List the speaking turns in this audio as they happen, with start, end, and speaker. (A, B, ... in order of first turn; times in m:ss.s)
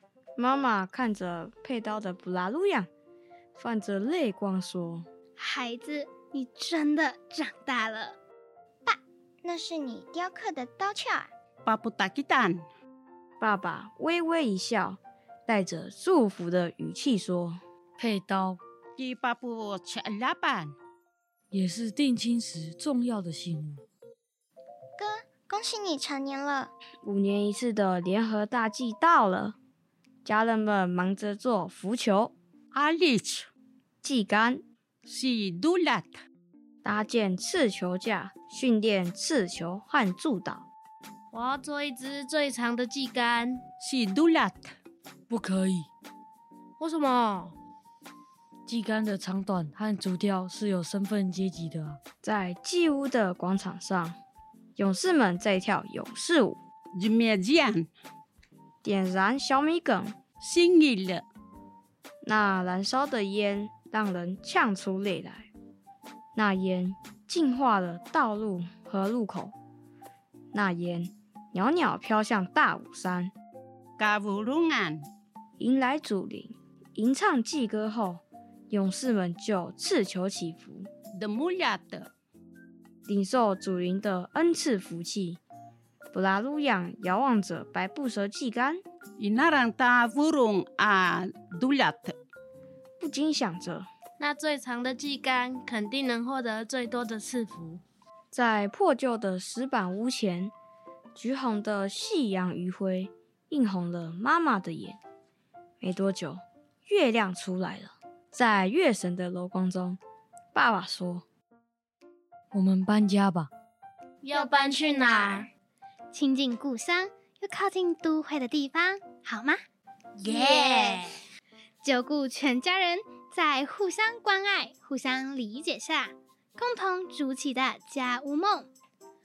0:00.4-0:02.9 A
0:03.5-0:05.1 A
0:05.4-0:08.2 B
0:08.8-0:11.3 C
0:11.6-0:12.6 D
0:13.4-0:17.6 A
0:18.0-0:18.6 E
0:19.0-0:20.7 D
0:21.5-0:23.8 E
0:25.0-0:26.7 C
0:27.0-0:29.6 A
0:30.2-0:32.3 A
0:32.7-0:33.5 D
0:34.0-0:34.6 A
0:35.0-0:36.2 D
0:36.8-0:40.6 A
0:41.3-0:43.6 F
0:43.8-0:44.7 D
0:45.3-0:45.9 E
0:46.8-0:47.5 F
0:48.6-0:52.0 E
0:52.2-0:54.2 A
0:54.8-0:56.6 A
0:56.9-0:57.9 D
0:58.8-1:00.2 A
1:00.4-1:01.2 D
1:02.2-1:05.5 A
1:06.3-1:09.5 A
1:10.5-1:13.3 A
1:14.0-1:15.0 D
1:15.6-1:20.9 A
1:21.2-1:22.1 D
1:23.0-1:25.4 A
1:26.1-1:28.8 A
1:29.2-1:32.2 D
1:33.0-1:33.9 A
1:34.2-1:37.8 F
1:38.3-1:40.5 A
1:41.1-1:45.0 A
1:45.8-1:50.0 A
1:50.5-1:51.2 A
1:52.5-1:53.5 E
1:54.2-1:55.5 F
1:54.3-1:55.4 B
1:56.1-1:59.6 B
2:00.2-2:01.1 F
2:00.2-2:01.1 B
2:01.8-2:08.7 B